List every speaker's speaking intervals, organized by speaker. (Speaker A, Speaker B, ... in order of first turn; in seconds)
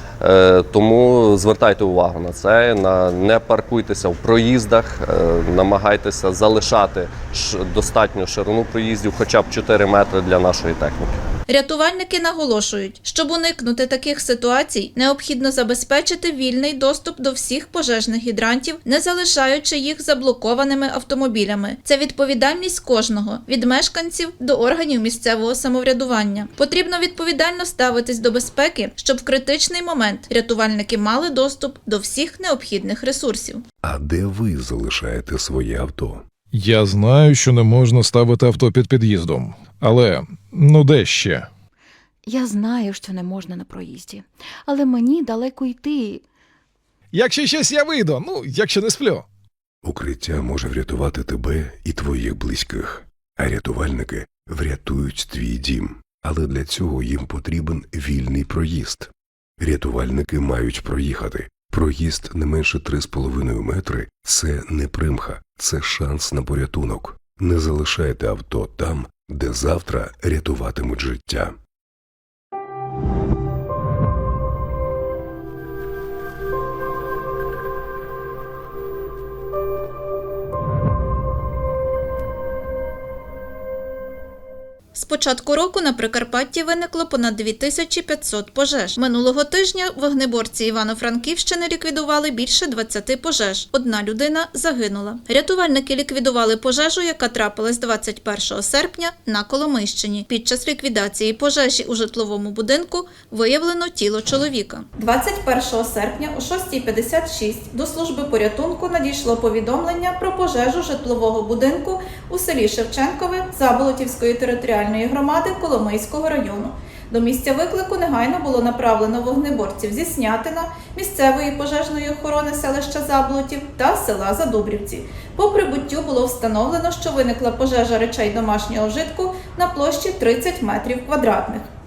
Speaker A: 0.2-11.2
Speaker B: 11.5-33.6, 84.9-131.7
Speaker C: 33.8-36.2, 49.8-71.5
Speaker D: 36.5-41.5, 47.1-49.2
Speaker E: 42.2-46.2